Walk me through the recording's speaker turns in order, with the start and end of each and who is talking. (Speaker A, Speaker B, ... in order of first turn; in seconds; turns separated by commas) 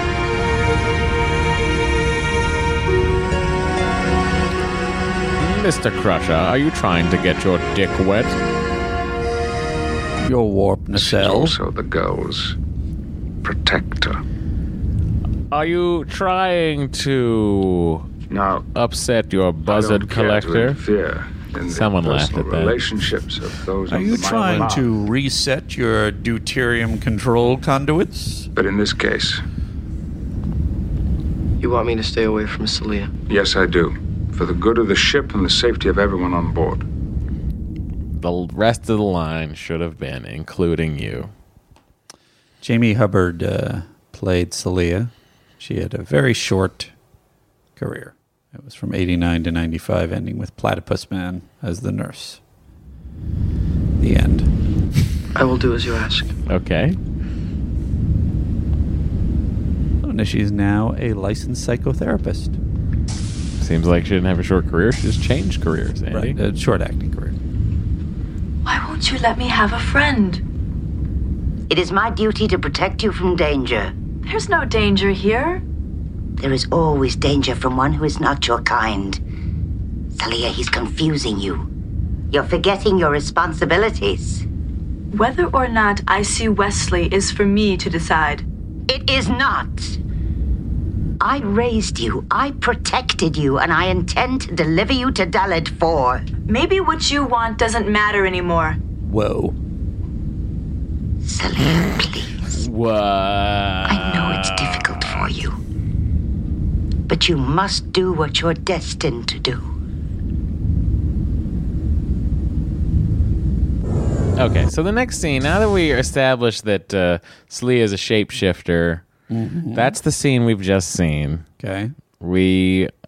Speaker A: 5.4-8.4, Speaker B: 10.2-11.5, Speaker C: 10.9-12.6, Speaker C: 13.4-14.2, Speaker A: 15.5-18.1, Speaker C: 18.3-18.6, Speaker A: 18.7-20.8, Speaker C: 19.6-24.9, Speaker A: 21.7-22.8, Speaker B: 23.9-28.4, Speaker C: 28.5-29.4, Speaker D: 31.6-33.1, Speaker C: 33.3-36.8, Speaker A: 38.1-41.3, Speaker B: 42.6-46.9, Speaker B: 47.8-52.4, Speaker B: 54.0-54.5, Speaker D: 55.3-56.3, Speaker A: 56.5-57.0, Speaker B: 60.0-62.5, Speaker A: 63.6-66.4, Speaker B: 66.1-67.3, Speaker E: 68.6-70.4, Speaker F: 71.7-73.9, Speaker E: 74.2-75.6, Speaker F: 76.4-79.2, Speaker F: 80.2-81.7, Speaker F: 82.3-84.4, Speaker E: 85.1-88.4, Speaker F: 88.9-90.0, Speaker F: 91.2-96.2, Speaker E: 96.5-98.8, Speaker B: 99.0-99.5, Speaker F: 101.2-102.4, Speaker A: 102.5-105.3, Speaker F: 103.9-105.6, Speaker F: 107.1-109.7, Speaker A: 114.4-119.0, Speaker B: 119.3-120.0, Speaker A: 119.7-121.5, Speaker B: 121.6-121.9, Speaker A: 122.2-122.9